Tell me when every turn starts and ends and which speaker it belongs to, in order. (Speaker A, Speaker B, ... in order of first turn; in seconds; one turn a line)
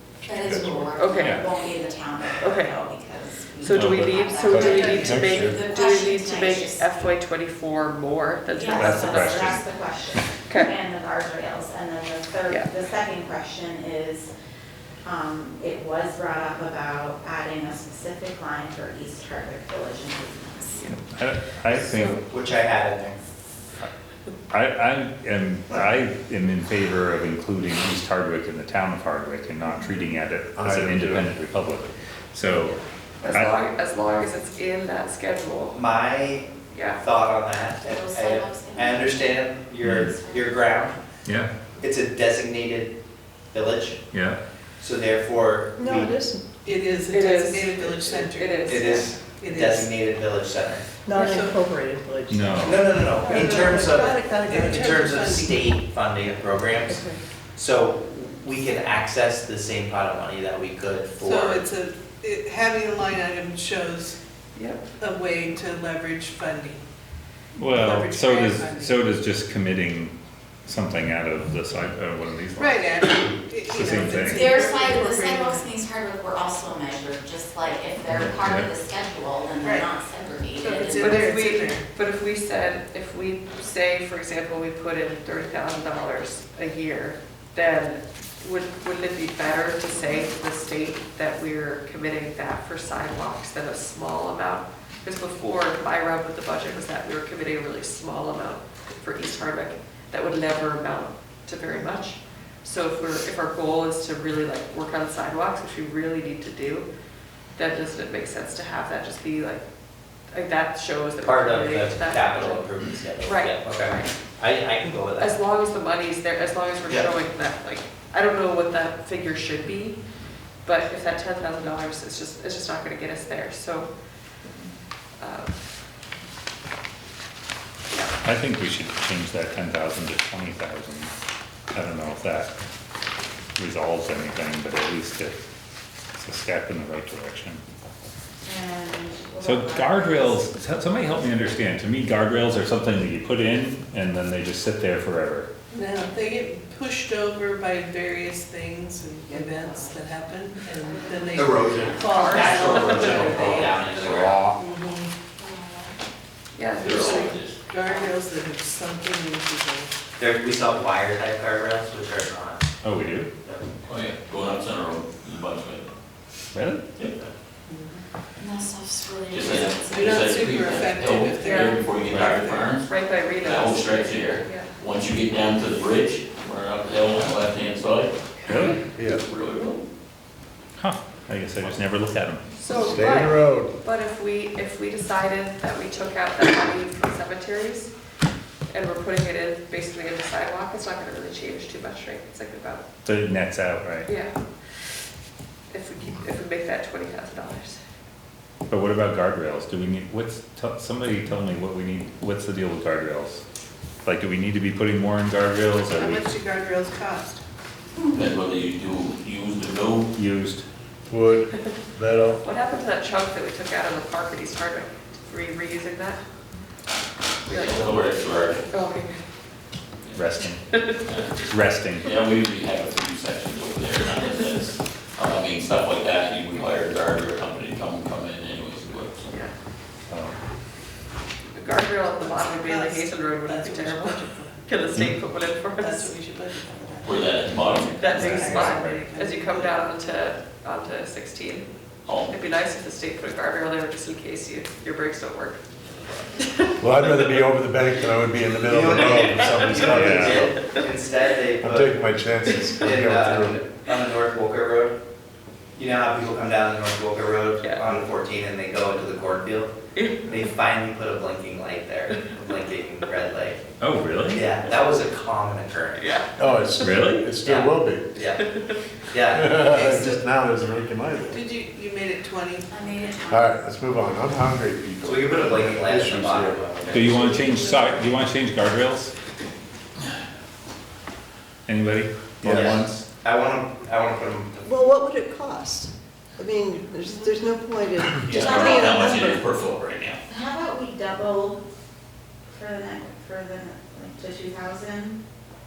Speaker A: 0.3-6.8
Speaker B: 0.3-0.7
Speaker C: 0.9-1.5
Speaker D: 1.1-1.4
Speaker C: 2.4-2.8
Speaker C: 3.6-9.6
Speaker D: 3.7-4.0
Speaker B: 4.0-5.7
Speaker E: 4.6-5.2
Speaker A: 8.5-14.3
Speaker D: 8.7-9.6
Speaker C: 12.5-12.8
Speaker A: 15.0-20.9
Speaker C: 20.7-21.0
Speaker D: 20.9-22.2
Speaker F: 21.8-23.3
Speaker D: 24.5-32.8
Speaker B: 30.6-31.3
Speaker C: 33.2-35.8
Speaker F: 35.7-41.0
Speaker C: 36.7-37.0
Speaker A: 38.0-38.7
Speaker D: 39.8-40.1
Speaker D: 41.2-41.5
Speaker F: 41.8-43.0
Speaker F: 43.5-44.0
Speaker D: 44.1-44.4
Speaker F: 44.8-46.2
Speaker G: 45.8-46.4
Speaker E: 46.6-49.9
Speaker C: 47.1-49.1
Speaker F: 47.8-50.9
Speaker G: 51.1-55.2
Speaker C: 51.1-51.4
Speaker E: 51.2-51.6
Speaker D: 52.3-52.9
Speaker F: 52.6-61.7
Speaker E: 53.3-53.8
Speaker E: 54.5-55.7
Speaker E: 61.2-64.2
Speaker C: 64.6-64.8
Speaker E: 65.0-66.8
Speaker D: 67.6-70.1
Speaker E: 67.7-69.0
Speaker D: 70.7-73.1
Speaker E: 72.6-75.8
Speaker D: 73.7-74.6
Speaker A: 74.3-81.1
Speaker D: 78.1-78.7
Speaker E: 79.6-80.0
Speaker E: 80.5-81.9
Speaker C: 81.0-106.9
Speaker C: 107.6-109.6
Speaker C: 110.3-112.6
Speaker F: 111.2-115.4
Speaker C: 113.2-114.1
Speaker C: 115.2-120.0
Speaker C: 120.6-123.9
Speaker C: 125.2-125.6
Speaker D: 128.2-131.1
Speaker D: 131.7-132.5
Speaker D: 133.6-135.4
Speaker D: 136.2-137.6
Speaker A: 138.4-140.4
Speaker D: 139.4-145.5
Speaker E: 145.7-153.8
Speaker F: 151.3-154.4
Speaker C: 152.0-153.7
Speaker D: 154.0-154.6
Speaker E: 154.6-155.1
Speaker A: 155.4-155.9
Speaker C: 156.5-157.3
Speaker H: 156.8-157.6
Speaker E: 156.8-159.9
Speaker F: 160.2-162.7
Speaker D: 162.8-163.3
Speaker H: 163.8-165.9
Speaker D: 166.5-166.8
Speaker A: 168.4-169.8
Speaker H: 169.3-178.1
Speaker E: 169.8-172.6
Speaker C: 171.4-174.7
Speaker D: 172.1-172.4
Speaker D: 178.5-178.8
Speaker H: 178.8-179.8
Speaker B: 178.9-179.2
Speaker D: 180.8-182.5
Speaker C: 182.6-187.9
Speaker B: 182.8-183.8
Speaker C: 188.7-192.8
Speaker D: 193.0-194.1
Speaker C: 194.0-194.3
Speaker C: 195.7-197.8
Speaker D: 198.7-203.4
Speaker D: 204.0-206.3
Speaker E: 205.9-207.4
Speaker H: 208.1-210.1
Speaker D: 210.1-210.6
Speaker B: 211.1-212.4
Speaker C: 212.4-216.2
Speaker H: 217.4-218.7
Speaker C: 217.5-217.8
Speaker C: 218.7-219.2
Speaker D: 220.1-220.7
Speaker H: 221.0-229.3
Speaker D: 221.5-222.1
Speaker D: 230.1-230.3
Speaker C: 231.6-236.1
Speaker E: 232.2-234.6
Speaker E: 235.8-240.1
Speaker H: 237.0-238.2
Speaker C: 237.9-241.7
Speaker D: 238.1-239.0
Speaker H: 242.1-242.3
Speaker C: 242.3-245.6
Speaker C: 246.4-246.7
Speaker B: 246.8-250.6
Speaker F: 248.6-251.9
Speaker C: 249.8-250.4
Speaker D: 249.9-250.5
Speaker B: 251.6-253.6
Speaker F: 252.8-255.0
Speaker F: 255.8-259.7
Speaker C: 259.9-260.3
Speaker F: 260.2-263.6
Speaker D: 263.8-264.5
Speaker F: 264.3-266.1
Speaker C: 266.0-266.3
Speaker B: 266.4-268.1
Speaker D: 266.8-267.3
Speaker F: 267.4-268.4
Speaker C: 268.4-268.8
Speaker F: 269.1-269.9
Speaker B: 269.3-271.4
Speaker E: 269.6-270.3
Speaker E: 271.3-272.7
Speaker A: 272.7-273.7
Speaker B: 273.3-277.5
Speaker F: 275.0-277.4
Speaker D: 276.9-279.1
Speaker E: 277.3-278.2
Speaker D: 281.6-283.1
Speaker F: 282.4-284.8
Speaker G: 284.6-288.9
Speaker H: 288.2-290.2
Speaker A: 288.4-289.4
Speaker A: 290.3-291.6
Speaker A: 292.5-295.2